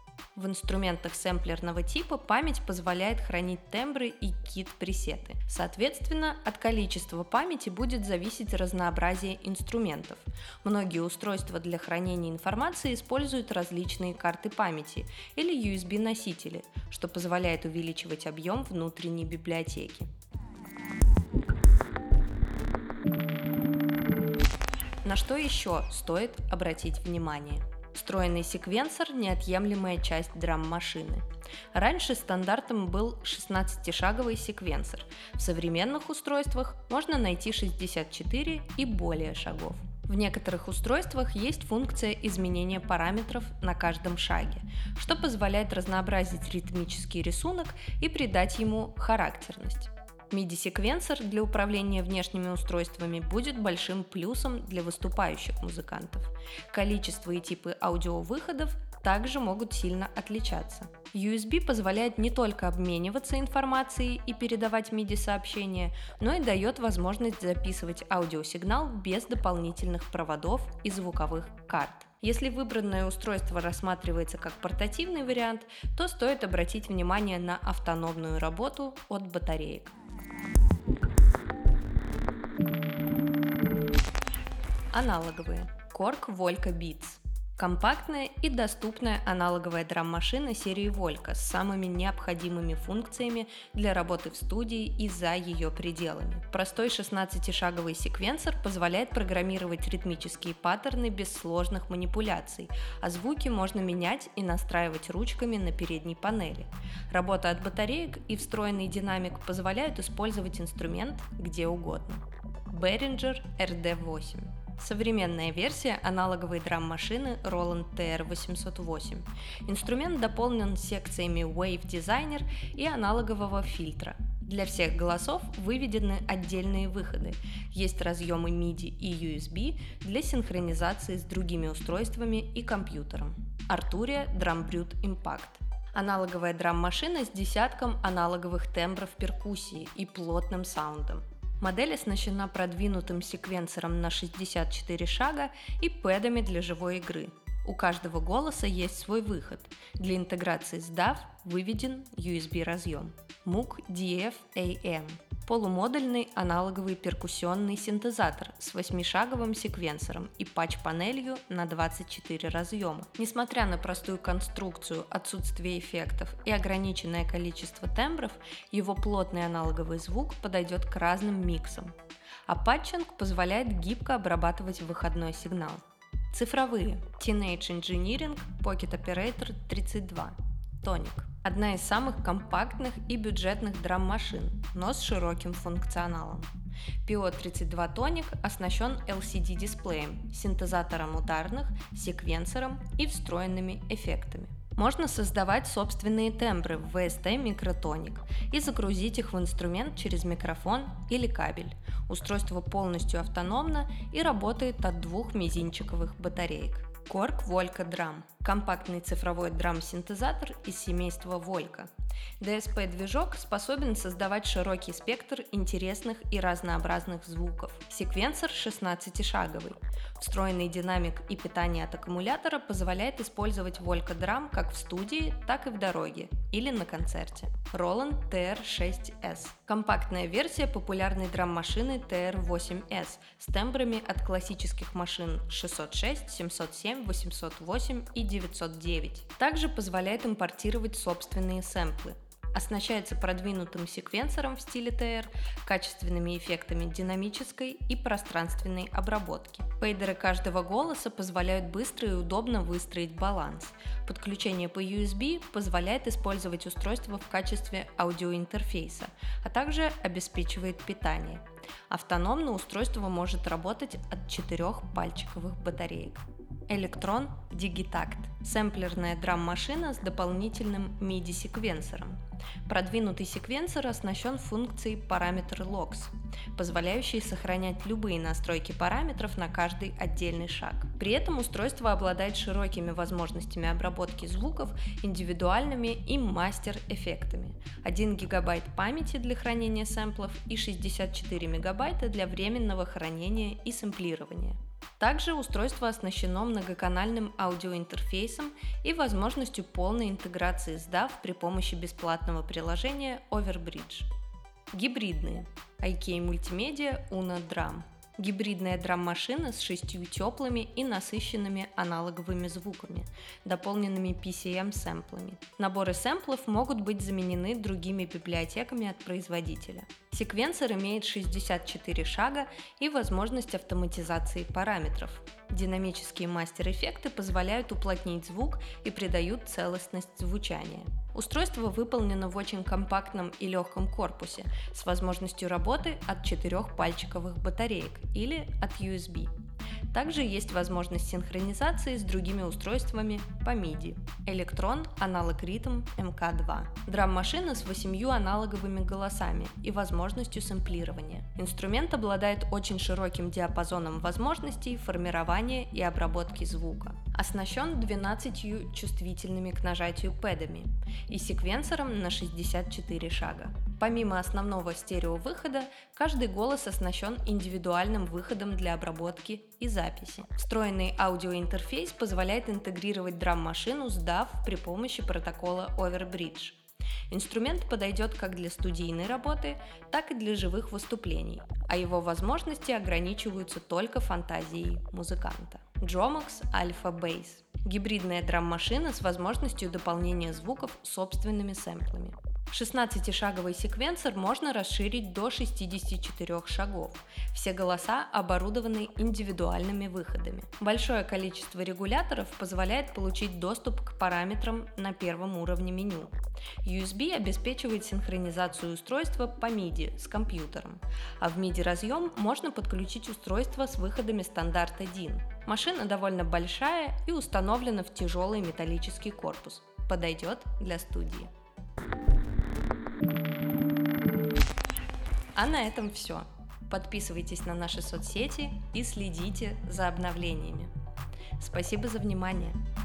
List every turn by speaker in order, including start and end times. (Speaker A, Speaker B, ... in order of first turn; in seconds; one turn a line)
Speaker A: 0.3-20.1
Speaker A: 25.0-79.9
Speaker A: 84.9-171.9
Speaker A: 172.4-186.5
Speaker A: 187.0-304.1
Speaker A: 304.7-339.3
Speaker A: 339.9-376.6
Speaker A: 377.1-421.3
Speaker A: 425.3-430.7
Speaker A: 431.4-432.6